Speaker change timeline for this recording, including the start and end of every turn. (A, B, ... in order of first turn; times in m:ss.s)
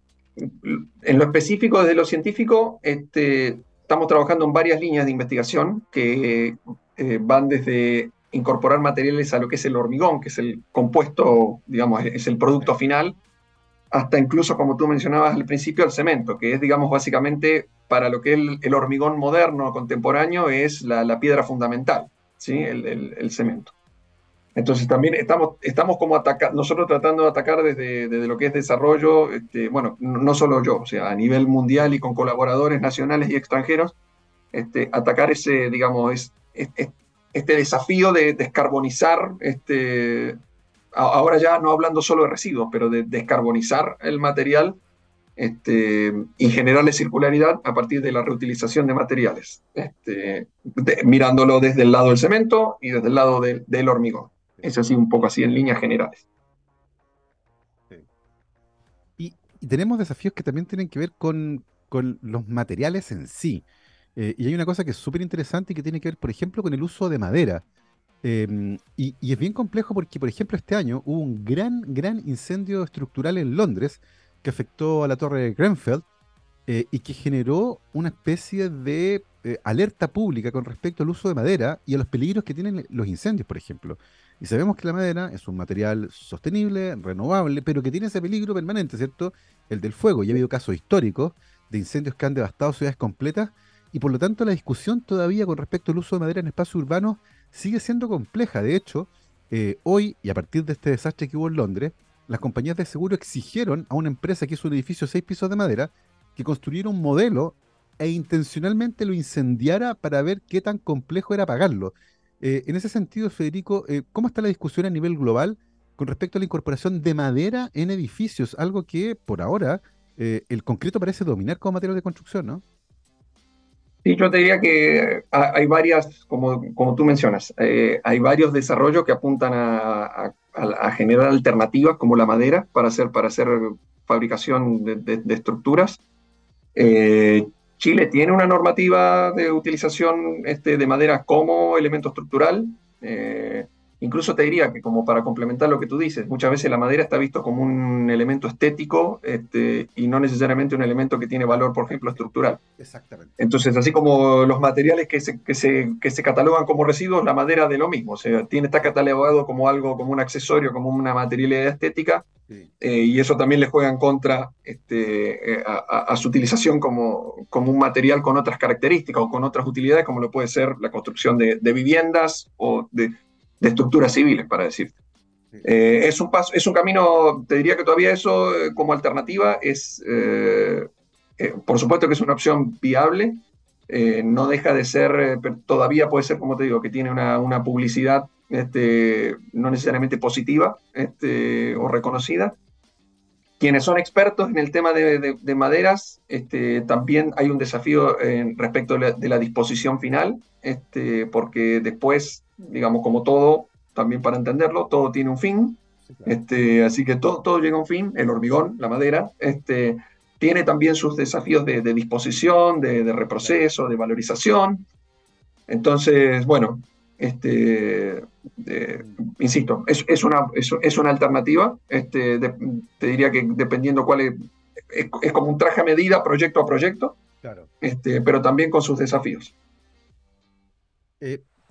0:00.4-0:13.2 A
0:13.9-0:23.7 A
0:24.6-0:33.9 A
0:34.5-0:40.4 A
0:40.9-0:44.8 A
0:45.4-0:56.2 A
0:59.2-1:03.6 B
1:04.2-1:07.6 B
1:08.2-1:16.0 B
1:16.7-2:02.6 B
2:04.0-2:16.0 A
2:16.8-2:32.6 A
2:31.5-2:33.4 B
2:33.4-2:42.2 A
2:42.8-2:54.9 A
2:55.6-3:12.6 A
3:13.6-3:34.8 A
3:26.1-3:26.3 B
3:33.4-3:33.6 B
3:35.7-3:44.4 A
3:44.9-3:47.2 A
3:47.4-3:47.7 B
3:47.8-3:49.5 A
3:51.2-3:51.5 B